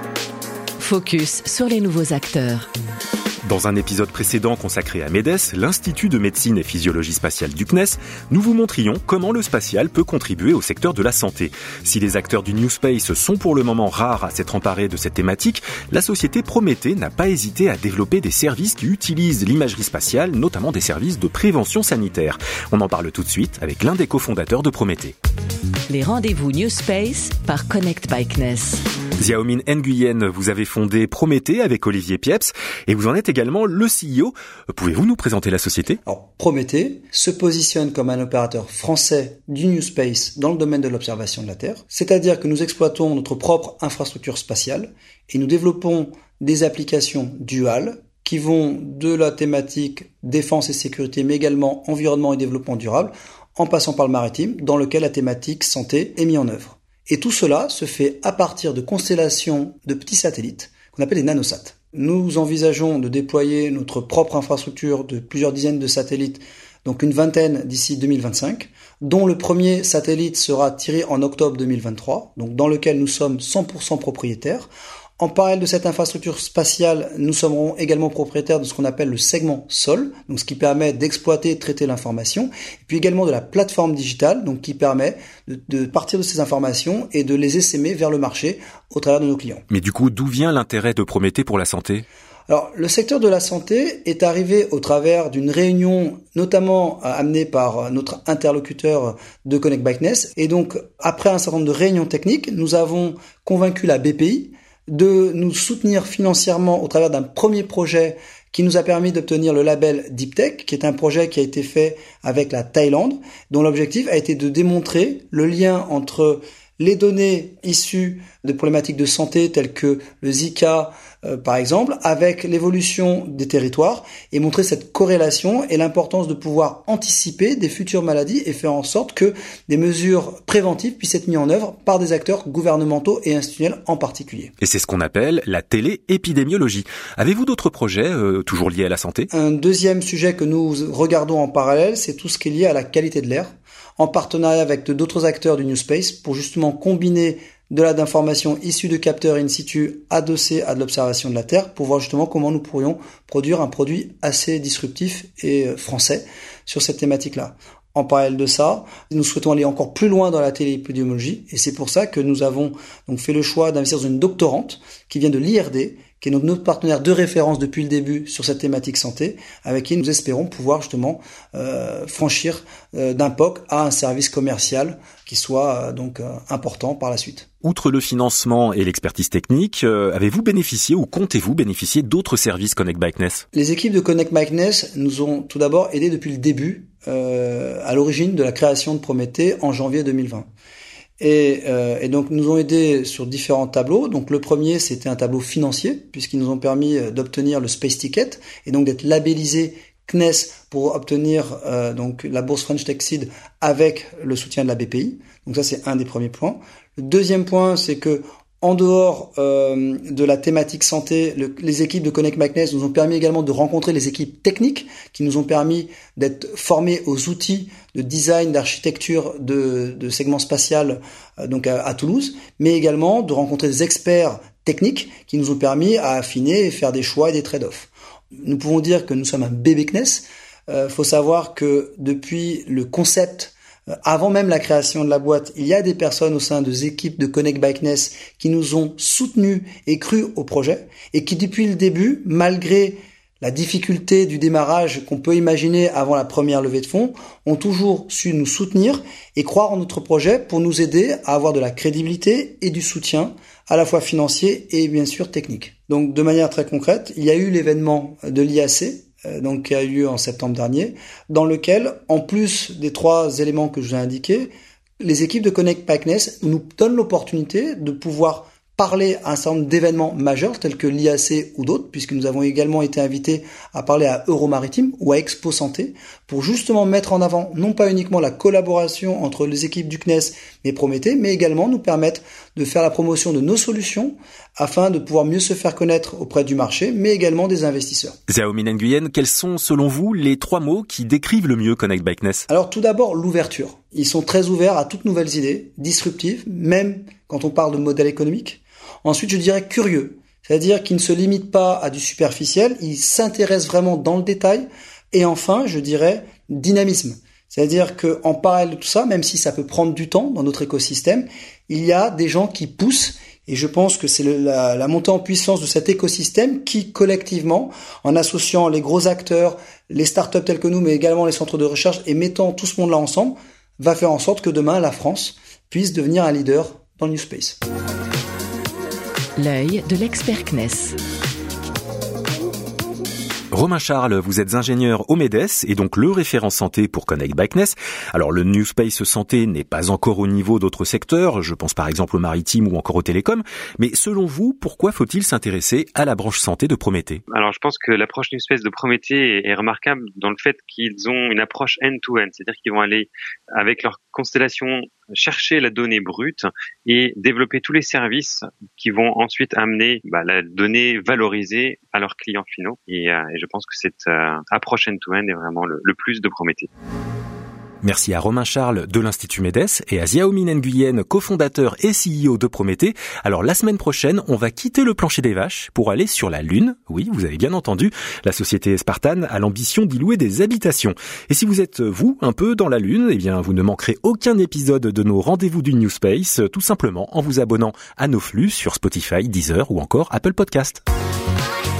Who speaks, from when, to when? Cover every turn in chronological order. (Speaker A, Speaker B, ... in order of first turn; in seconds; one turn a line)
Speaker A: 0.8-2.7
Speaker B: 3.5-25.1
Speaker A: 25.9-28.8
Speaker B: 29.2-36.0
Speaker C: 36.0-89.6
Speaker B: 89.7-92.0
Speaker C: 92.5-134.5
Speaker B: 134.6-139.3
Speaker C: 139.3-177.5
Speaker B: 177.6-183.4
Speaker C: 183.5-190.5
Speaker C: 191.2-227.9
Speaker C: 228.4-288.1
Speaker B: 288.3-292.4
Speaker C: 292.5-327.6
Speaker A: 329.4-330.9
Speaker B: 333.5-347.2
Speaker D: 347.3-366.7
Speaker B: 367.8-390.8